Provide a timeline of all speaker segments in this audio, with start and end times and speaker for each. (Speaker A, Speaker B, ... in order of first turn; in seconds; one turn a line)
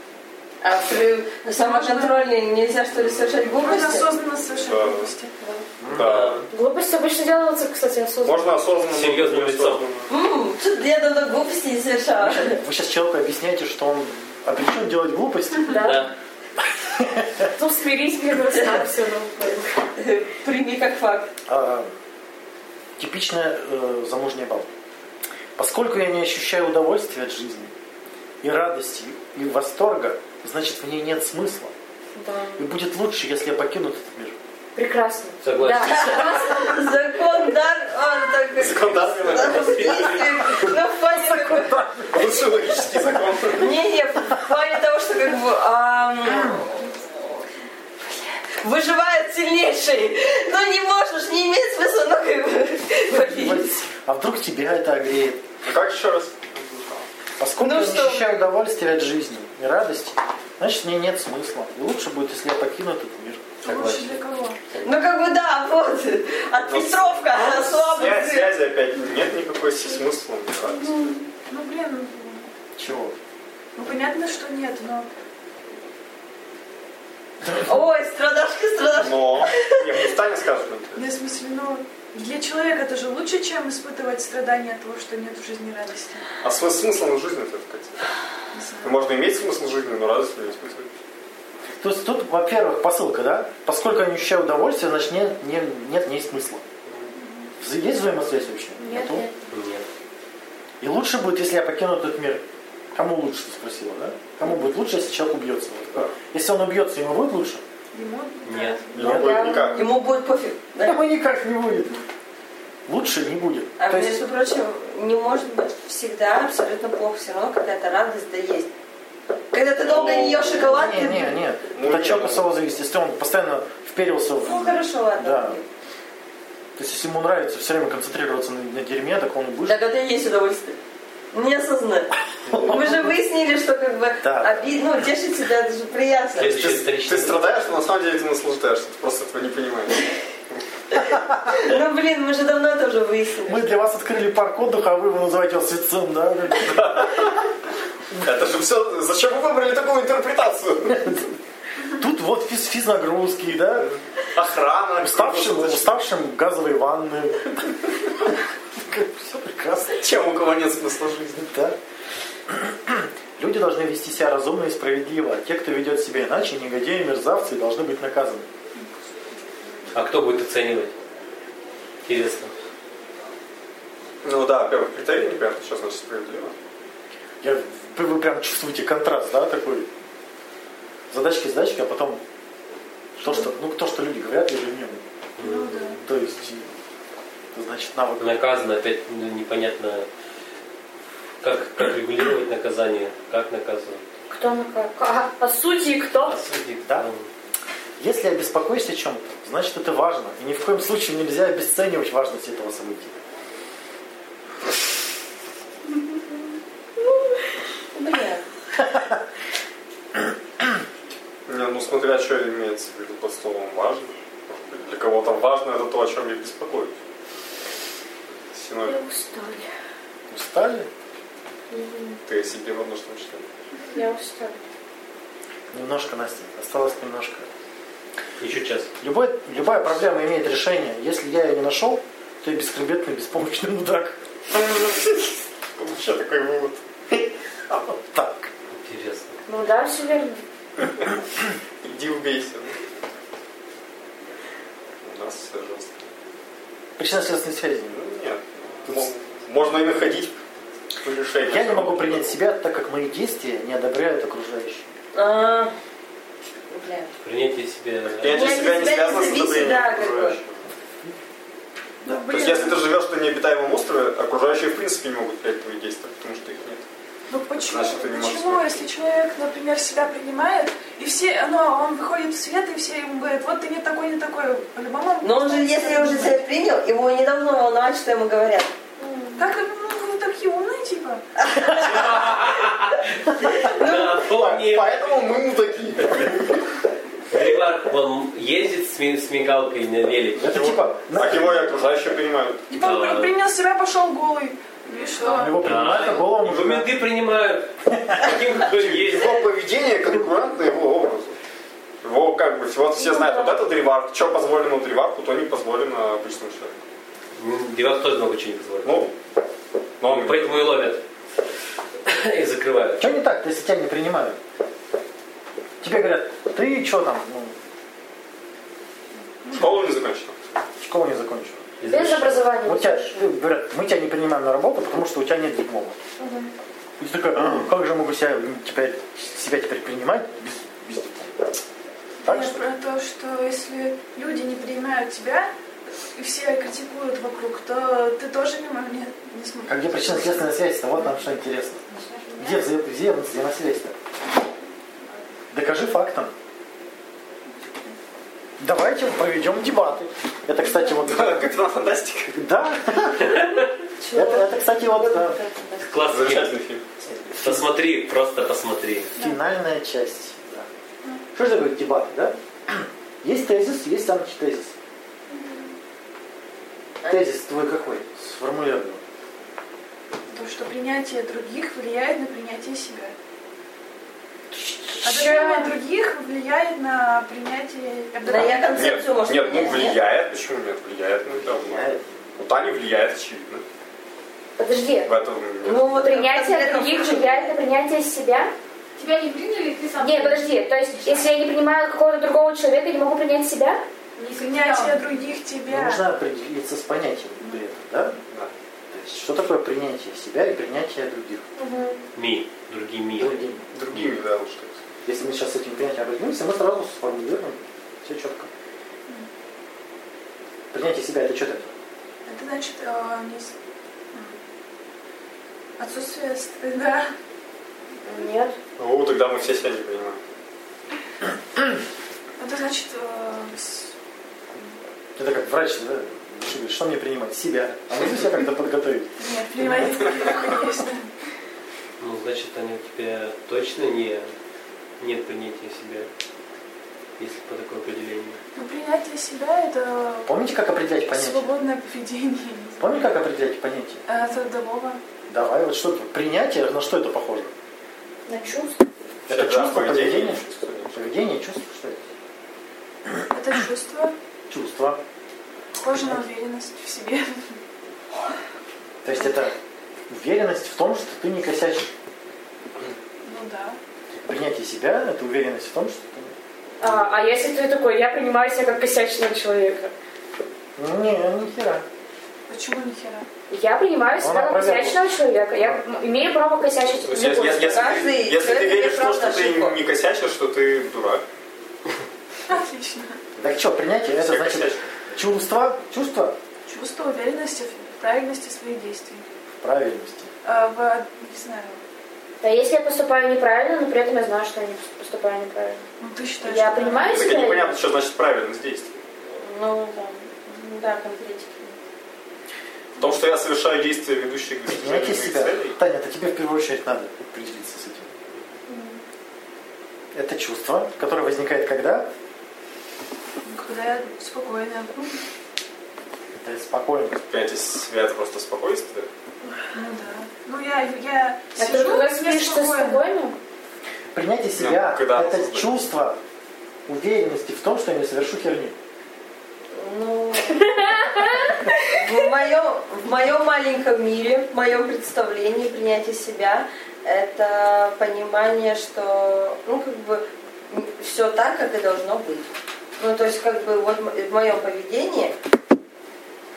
Speaker A: 0.6-4.1
Speaker B: 1.5-2.3
Speaker C: 3.0-5.1
Speaker B: 3.6-5.3
Speaker D: 5.4-5.6
Speaker E: 5.8-6.2
Speaker C: 5.9-6.5
Speaker F: 5.9-6.5
Speaker D: 6.5-8.5
Speaker C: 8.2-10.1
Speaker F: 8.9-9.8
Speaker A: 10.1-12.6
Speaker E: 12.2-16.0
Speaker D: 15.7-16.1
Speaker F: 15.8-16.1
Speaker E: 16.6-17.5
Speaker D: 17.6-19.8
Speaker A: 18.5-18.8
Speaker A: 19.9-21.3
Speaker E: 21.5-21.9
Speaker E: 23.0-24.7
Speaker E: 25.6-27.7
Speaker E: 28.4-31.7
Speaker D: 32.1-32.6
Speaker E: 32.5-34.4
Speaker D: 34.7-36.7
Speaker F: 35.4-36.4
Speaker A: 35.8-41.8
Speaker C: 38.5-40.7
Speaker E: 41.1-42.2
Speaker C: 42.0-43.7
Speaker A: 43.6-47.4
Speaker E: 46.2-46.6
Speaker A: 48.0-53.7
Speaker E: 53.1-55.4
Speaker C: 55.6-57.1
Speaker E: 57.4-63.5
Speaker A: 57.6-58.2
Speaker F: 63.6-65.0
Speaker B: 63.6-64.6
Speaker A: 64.8-68.5
Speaker C: 66.7-71.1
Speaker B: 70.7-72.5
Speaker E: 72.8-73.2
Speaker B: 73.8-75.1
Speaker A: 77.5-79.8
Speaker C: 78.9-81.1
Speaker B: 80.9-86.2
Speaker C: 86.4-88.0
Speaker B: 88.5-89.0
Speaker C: 88.8-90.9
Speaker E: 91.8-96.6
Speaker C: 96.8-97.1
Speaker B: 97.1-97.5
Speaker E: 97.6-99.3
Speaker D: 98.8-99.3
Speaker F: 99.5-99.8
Speaker E: 100.8-102.4
Speaker E: 102.9-107.6
Speaker B: 107.9-109.1
Speaker F: 108.4-108.8
Speaker C: 108.9-109.8
Speaker E: 109.0-109.6
Speaker D: 109.0-109.9
Speaker A: 109.7-111.0
Speaker E: 110.8-112.0
Speaker E: 112.9-114.2
Speaker A: 113.8-118.7
Speaker A: 119.5-121.4
Speaker C: 119.8-120.7
Speaker E: 120.5-125.5
Speaker C: 121.7-122.5
Speaker A: 124.4-125.7
Speaker E: 126.8-129.8
Speaker A: 129.7-130.8
Speaker A: 131.3-132.1
Speaker C: 132.5-132.8
Speaker E: 132.5-132.8
Speaker A: 132.7-136.6
Speaker E: 134.2-134.7
Speaker F: 136.4-137.8
Speaker C: 136.4-140.0
Speaker A: 141.4-143.7
Speaker E: 143.4-147.1
Speaker C: 146.6-147.4
Speaker E: 148.1-148.4
Speaker C: 148.2-151.2
Speaker E: 150.9-151.2
Speaker E: 151.9-153.9
Speaker C: 153.8-156.0
Speaker E: 155.0-158.1
Speaker E: 158.8-160.0
Speaker C: 160.0-161.5
Speaker E: 161.5-161.8
Speaker E: 162.5-168.5
Speaker F: 169.9-170.9
Speaker F: 172.0-172.5
Speaker C: 174.2-176.5
Speaker E: 177.4-179.9
Speaker E: 181.1-182.2
Speaker E: 183.2-185.0
Speaker F: 185.4-186.0
Speaker B: 185.4-186.0
Speaker E: 186.1-186.7
Speaker E: 187.5-188.3
Speaker F: 188.2-190.1
Speaker F: 191.4-194.1
Speaker D: 194.3-196.4
Speaker F: 196.2-197.3
Speaker E: 198.0-203.2
Speaker A: 207.9-208.4
Speaker C: 211.5-217.0
Speaker C: 218.3-219.1
Speaker D: 218.8-219.7
Speaker E: 220.3-220.9
Speaker D: 221.7-222.2
Speaker C: 222.2-223.4
Speaker D: 223.9-224.6
Speaker E: 225.7-227.5
Speaker F: 228.4-228.9
Speaker E: 229.0-234.2
Speaker C: 234.6-235.2
Speaker C: 235.8-237.2
Speaker E: 237.7-238.5
Speaker F: 238.7-239.4
Speaker D: 239.5-240.4
Speaker C: 241.8-242.8
Speaker C: 245.0-246.1
Speaker E: 247.0-248.0
Speaker C: 247.9-250.3
Speaker E: 248.8-249.1
Speaker C: 251.0-252.4
Speaker E: 251.4-254.9
Speaker A: 255.1-255.7
Speaker A: 256.7-257.1
Speaker F: 257.2-258.6
Speaker C: 258.1-260.6
Speaker A: 258.3-260.4
Speaker B: 262.0-262.8
Speaker C: 262.3-266.8
Speaker B: 267.3-276.4
Speaker C: 267.5-268.8
Speaker A: 275.2-278.7
Speaker D: 279.0-279.5
Speaker B: 279.4-281.2
Speaker A: 281.5-281.8
Speaker F: 281.7-285.1
Speaker C: 283.7-286.6
Speaker F: 287.3-290.6
Speaker E: 290.4-291.7
Speaker C: 290.5-292.6
Speaker B: 292.7-295.6
Speaker F: 292.7-293.3
Speaker E: 295.3-296.9
Speaker F: 295.6-299.4
Speaker E: 297.9-298.2
Speaker C: 298.6-301.4
Speaker C: 302.0-306.8
Speaker D: 302.9-303.6
Speaker F: 307.3-309.0
Speaker C: 308.8-309.1
Speaker C: 310.0-310.6
Speaker F: 310.1-311.0
Speaker F: 312.1-313.1
Speaker E: 313.0-314.4
Speaker E: 315.8-317.5
Speaker C: 319.5-320.4
Speaker E: 320.8-326.0
Speaker F: 321.8-322.4
Speaker D: 321.9-323.2
Speaker D: 326.2-326.5
Speaker E: 327.0-331.4
Speaker E: 332.2-332.6
Speaker B: 332.2-335.5
Speaker B: 336.1-340.4
Speaker E: 339.7-341.8
Speaker G: 341.9-342.6
Speaker E: 342.4-343.9
Speaker E: 345.5-346.3
Speaker E: 348.6-351.5
Speaker C: 350.9-352.4
Speaker E: 352.3-353.3
Speaker F: 353.3-353.5
Speaker A: 354.0-355.9
Speaker E: 354.1-355.4
Speaker F: 355.8-356.6
Speaker C: 356.1-356.8
Speaker E: 357.1-357.7
Speaker F: 357.4-359.1
Speaker E: 359.1-360.7
Speaker E: 361.3-364.7
Speaker E: 367.1-369.0
Speaker B: 370.3-373.1
Speaker B: 375.0-379.1
Speaker D: 375.1-375.7
Speaker A: 378.2-380.0
Speaker C: 378.4-383.6
Speaker E: 381.4-382.4
Speaker D: 384.6-385.1
Speaker C: 385.0-385.9
Speaker A: 385.6-387.6
Speaker D: 385.9-388.5
Speaker G: 388.9-391.3
Speaker D: 390.0-393.8
Speaker G: 394.2-395.1
Speaker B: 394.4-396.0
Speaker E: 395.7-398.1
Speaker C: 398.3-398.5
Speaker E: 398.9-401.4
Speaker D: 401.6-402.0
Speaker F: 402.1-404.1
Speaker E: 403.2-403.6
Speaker C: 403.7-404.8
Speaker E: 405.0-408.5
Speaker E: 410.7-411.7
Speaker B: 412.2-413.5
Speaker B: 415.8-417.1
Speaker D: 418.0-418.5
Speaker C: 418.8-420.2
Speaker B: 422.4-423.9
Speaker E: 425.1-429.1
Speaker B: 429.2-431.1
Speaker F: 432.0-434.3
Speaker F: 435.0-436.1
Speaker F: 437.2-438.4
Speaker B: 438.5-440.3
Speaker E: 440.2-441.6
Speaker B: 441.1-442.9
Speaker E: 442.8-444.0
Speaker B: 444.1-445.0
Speaker E: 445.3-447.5
Speaker D: 448.3-448.8
Speaker E: 449.3-450.4
Speaker C: 449.3-451.2
Speaker E: 450.9-452.0
Speaker B: 453.3-454.1
Speaker E: 454.5-455.0
Speaker B: 455.7-457.5
Speaker E: 455.9-456.2
Speaker E: 459.0-459.5
Speaker E: 460.1-461.9
Speaker B: 463.2-463.8
Speaker E: 464.3-466.3
Speaker D: 466.8-469.9
Speaker F: 466.8-467.1
Speaker E: 470.8-471.8
Speaker B: 472.5-473.3
Speaker D: 473.5-478.0
Speaker E: 474.2-475.0
Speaker C: 477.0-481.2
Speaker A: 477.6-479.8
Speaker B: 482.5-483.2
Speaker E: 483.4-486.4
Speaker C: 484.1-485.0
Speaker B: 486.7-489.2
Speaker E: 489.6-490.3
Speaker B: 490.4-491.8
Speaker D: 492.4-495.8
Speaker B: 496.0-497.3
Speaker D: 496.4-497.8
Speaker C: 497.0-499.0
Speaker A: 499.3-501.8
Speaker C: 503.0-505.8
Speaker E: 504.6-508.1
Speaker E: 510.1-512.1
Speaker B: 513.4-515.2
Speaker E: 516.4-517.2
Speaker C: 517.3-519.1
Speaker B: 519.7-523.1
Speaker D: 521.5-523.4
Speaker E: 524.1-526.2
Speaker C: 524.6-525.8
Speaker E: 526.9-528.8
Speaker A: 529.7-531.2
Speaker D: 530.8-531.5
Speaker A: 531.8-545.3